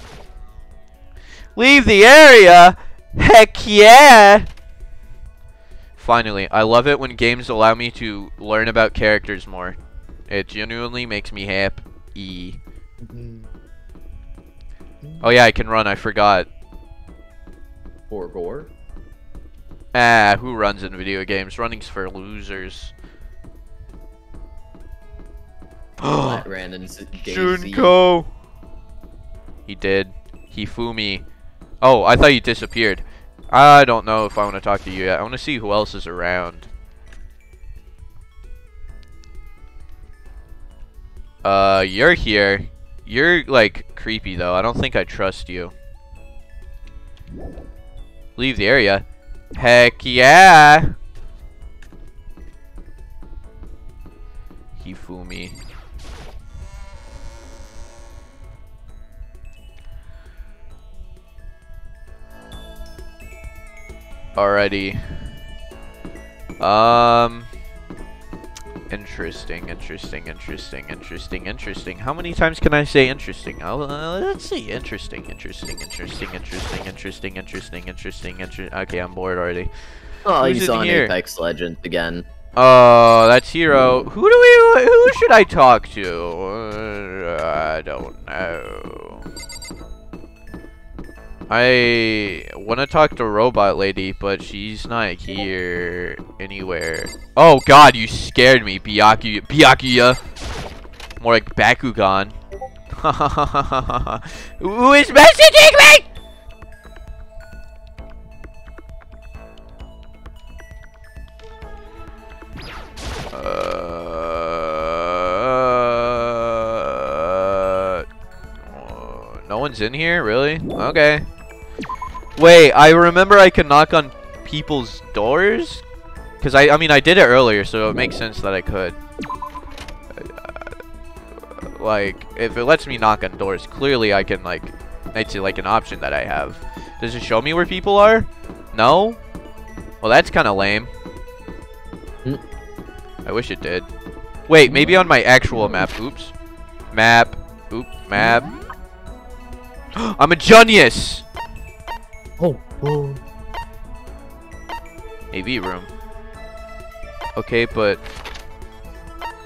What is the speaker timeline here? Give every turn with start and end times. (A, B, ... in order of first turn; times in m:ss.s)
0:01.6-0:04.5 A
0:06.0-0:09.8 A
0:10.3-0:12.6 A
0:13.0-0:13.5 B
0:15.0-0:15.3 B
0:15.2-0:16.5 A
0:18.1-0:18.7 B
0:19.9-0:22.9 A
0:26.0-0:26.4 A
0:26.1-0:27.9 B
0:27.1-0:28.3 A
0:29.7-0:31.2 A
0:31.8-0:36.7 A
0:41.4-0:45.7 A
0:48.4-0:51.0 A
0:54.8-0:55.6 A
1:04.3-1:05.2 A
1:06.6-1:07.5 A
1:08.9-1:19.7 A
1:20.2-1:22.2 B
1:20.4-1:21.1 A
1:22.6-1:29.2 A
1:31.5-1:40.2 A
1:41.2-1:42.4 A
1:42.9-1:46.0 A
1:53.3-1:58.0 A
1:58.7-2:01.3 A
2:02.4-2:05.8 A
2:06.4-2:09.0 A
2:10.1-2:10.7 A
2:11.7-2:19.2 A
2:20.0-2:20.9 A
2:23.2-2:23.9 A
2:24.5-2:26.3 A
2:26.9-2:28.5 A
2:29.9-2:31.2 A
2:32.4-2:33.2 B
2:35.3-2:35.9 A
2:37.4-2:38.0 A